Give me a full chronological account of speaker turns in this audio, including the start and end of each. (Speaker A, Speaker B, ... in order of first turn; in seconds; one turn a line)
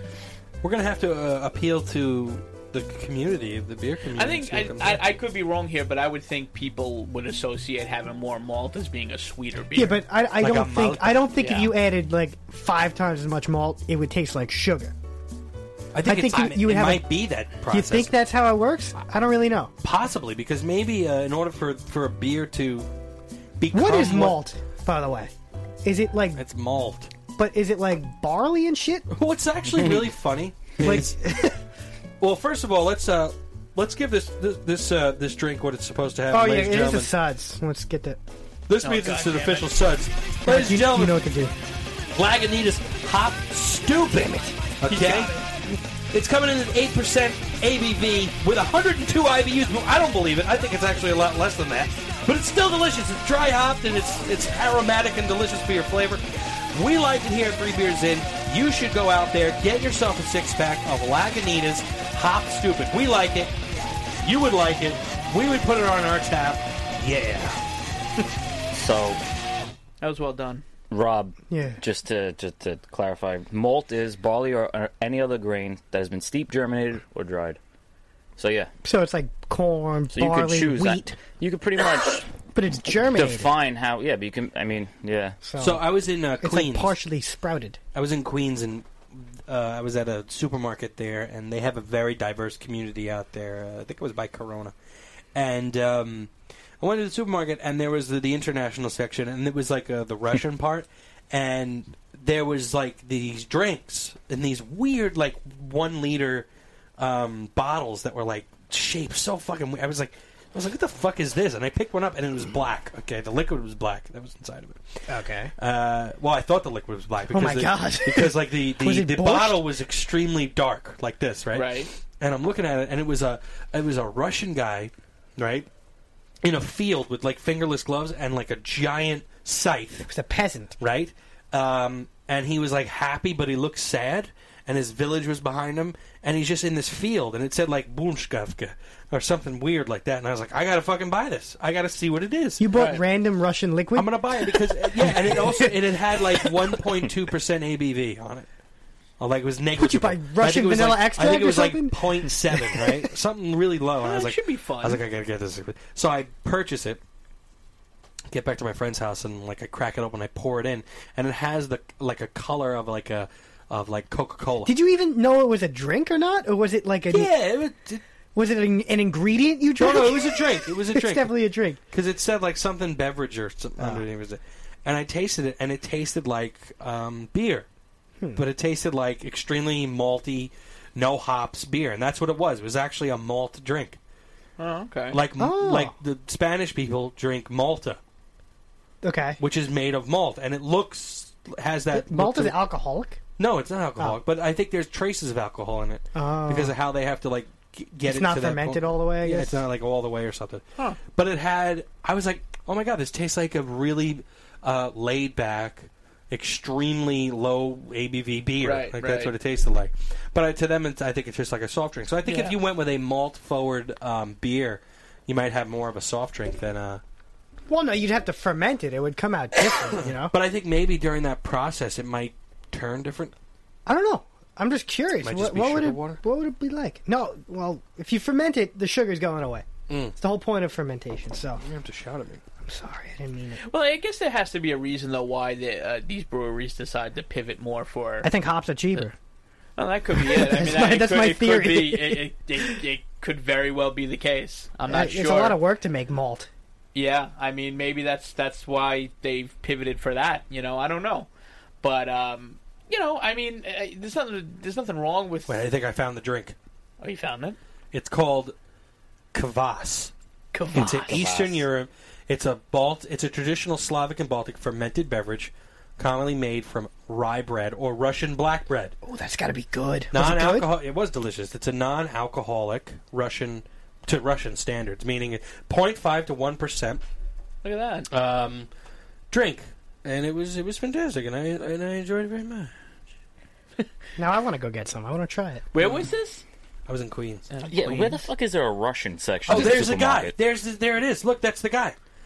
Speaker A: 0.6-5.1
Speaker B: 4.2-10.0
Speaker C: 9.7-14.9
Speaker A: 10.4-11.3
Speaker B: 11.4-11.7
Speaker A: 15.9-18.2
Speaker C: 16.0-17.1
Speaker C: 17.7-19.7
Speaker A: 19.8-22.9
Speaker A: 23.6-24.4
Speaker C: 23.7-25.3
Speaker C: 25.8-26.4
Speaker A: 26.4-27.1
Speaker C: 27.4-29.1
Speaker A: 29.1-31.5
Speaker C: 30.8-31.6
Speaker A: 32.2-37.1
Speaker C: 36.3-38.2
Speaker A: 38.7-41.2
Speaker B: 38.8-39.7
Speaker C: 40.5-41.5
Speaker A: 42.1-63.6
Speaker B: 44.9-45.5
Speaker A: 64.2-67.6
Speaker D: 68.7-69.2
Speaker B: 70.0-70.6
Speaker D: 70.9-77.6
Speaker C: 71.5-71.8
Speaker D: 78.4-78.7
Speaker C: 78.8-81.2
Speaker D: 80.1-82.3
Speaker C: 82.5-83.5
Speaker D: 83.1-85.4
Speaker C: 85.4-85.8
Speaker A: 85.6-87.0
Speaker C: 86.4-87.8
Speaker A: 88.0-94.7
Speaker A: 95.3-106.5
Speaker A: 107.0-125.7
Speaker C: 115.1-115.5
Speaker C: 117.3-119.7
Speaker B: 121.5-121.9
Speaker A: 126.4-130.1
Speaker C: 130.1-130.8
Speaker A: 130.8-142.7
Speaker C: 142.6-145.7
Speaker B: 142.7-143.0
Speaker A: 143.9-148.5
Speaker A: 149.2-157.0
Speaker C: 149.8-153.0
Speaker B: 154.0-155.0
Speaker A: 158.3-164.8
Speaker C: 164.7-167.3
Speaker A: 167.1-168.0
Speaker C: 168.3-171.8
Speaker A: 169.8-171.4
Speaker A: 171.9-177.7
Speaker C: 173.8-174.0
Speaker A: 178.3-184.0
Speaker B: 184.6-185.2
Speaker A: 185.1-188.0
Speaker C: 185.4-185.9
Speaker C: 189.0-189.4
Speaker A: 189.4-192.6
Speaker C: 191.9-193.2
Speaker A: 193.4-217.0
Speaker C: 196.2-196.7
Speaker C: 198.1-199.6
Speaker B: 208.6-209.3
Speaker B: 212.3-212.5
Speaker C: 212.3-212.6
Speaker C: 217.7-220.3
Speaker A: 219.9-223.3
Speaker C: 223.9-231.6
Speaker A: 225.2-226.2
Speaker A: 229.9-230.2
Speaker A: 231.6-232.4
Speaker C: 232.7-233.6
Speaker B: 233.6-238.3
Speaker C: 238.2-239.2
Speaker B: 239.8-245.6
Speaker C: 240.2-242.8
Speaker C: 244.9-246.5
Speaker B: 246.9-251.3
Speaker B: 251.8-255.6
Speaker A: 255.5-256.6
Speaker B: 257.0-257.6
Speaker A: 257.9-258.6
Speaker A: 259.3-260.1
Speaker B: 260.5-261.1
Speaker A: 260.7-269.0
Speaker D: 260.7-261.6
Speaker C: 269.1-270.7
Speaker A: 270.1-277.0
Speaker B: 277.6-278.1
Speaker A: 278.1-278.7
Speaker A: 279.3-282.7
Speaker C: 284.2-285.6
Speaker B: 285.7-286.4
Speaker A: 285.8-286.0
Speaker A: 286.9-287.5
Speaker B: 287.5-288.2
Speaker D: 287.7-290.4
Speaker A: 289.5-291.9